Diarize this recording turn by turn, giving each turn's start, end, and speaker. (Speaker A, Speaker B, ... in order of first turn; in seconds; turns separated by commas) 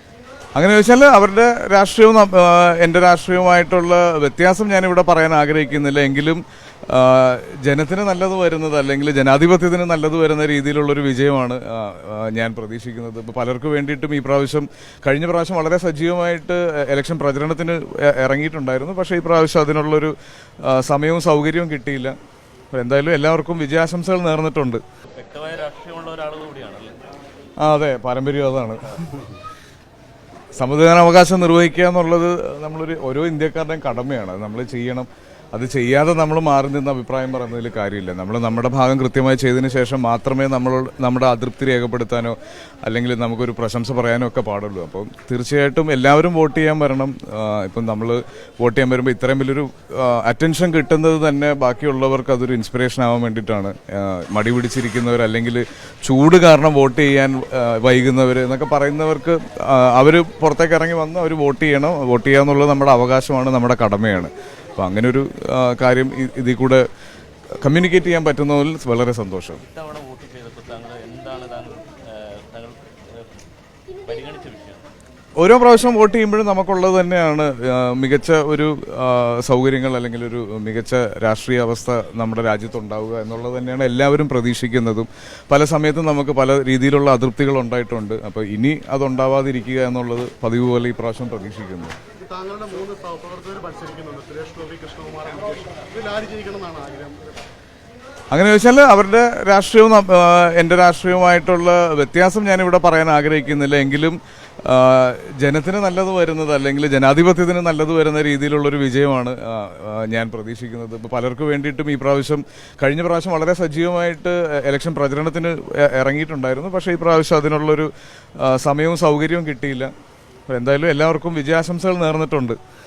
Speaker A: 0.6-22.1, Speaker A: 22.7-24.8, Speaker B: 25.1-26.9, Speaker A: 27.6-29.3, Speaker A: 30.6-66.8, Speaker A: 67.6-69.6, Speaker B: 69.6-73.3, Speaker B: 74.0-74.9, Speaker A: 75.4-92.0, Speaker C: 92.2-97.4, Speaker A: 98.3-119.9, Speaker A: 120.5-122.6